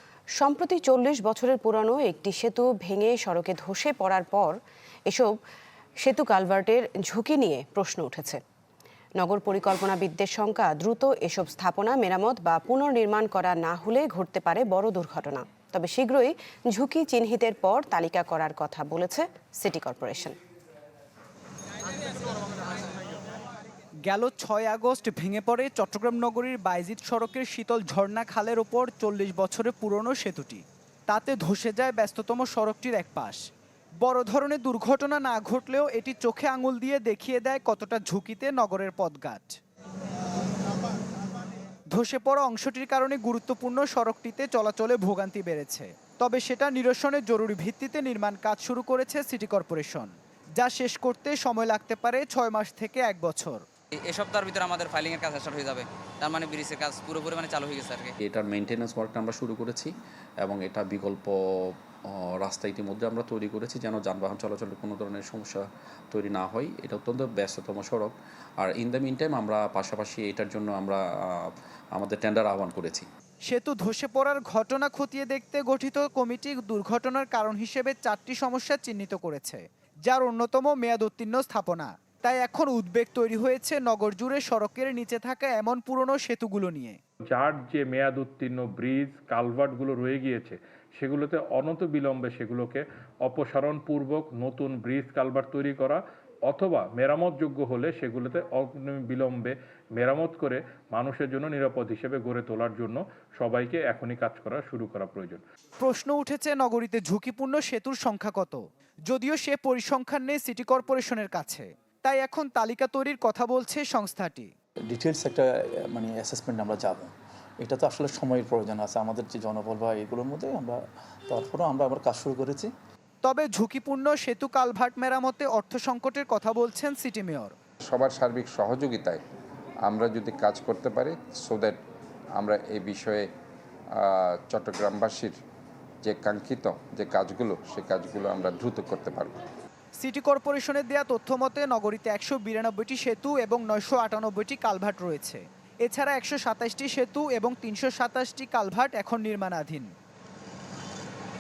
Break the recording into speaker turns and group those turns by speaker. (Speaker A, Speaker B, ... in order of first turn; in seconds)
Speaker A: 0.3-5.3, 6.0-8.4, 9.2-20.4
Speaker B: 24.1-33.5, 34.0-39.6, 41.9-53.6, 73.5-87.0, 105.8-114.5, 123.2-127.5, 140.0-149.9
Speaker C: 54.0-58.1
Speaker D: 58.2-73.1
Speaker E: 87.4-105.4
Speaker F: 114.9-122.7
Speaker G: 127.8-129.2, 129.8-131.8, 132.3-133.3, 133.9-135.4, 136.0-139.4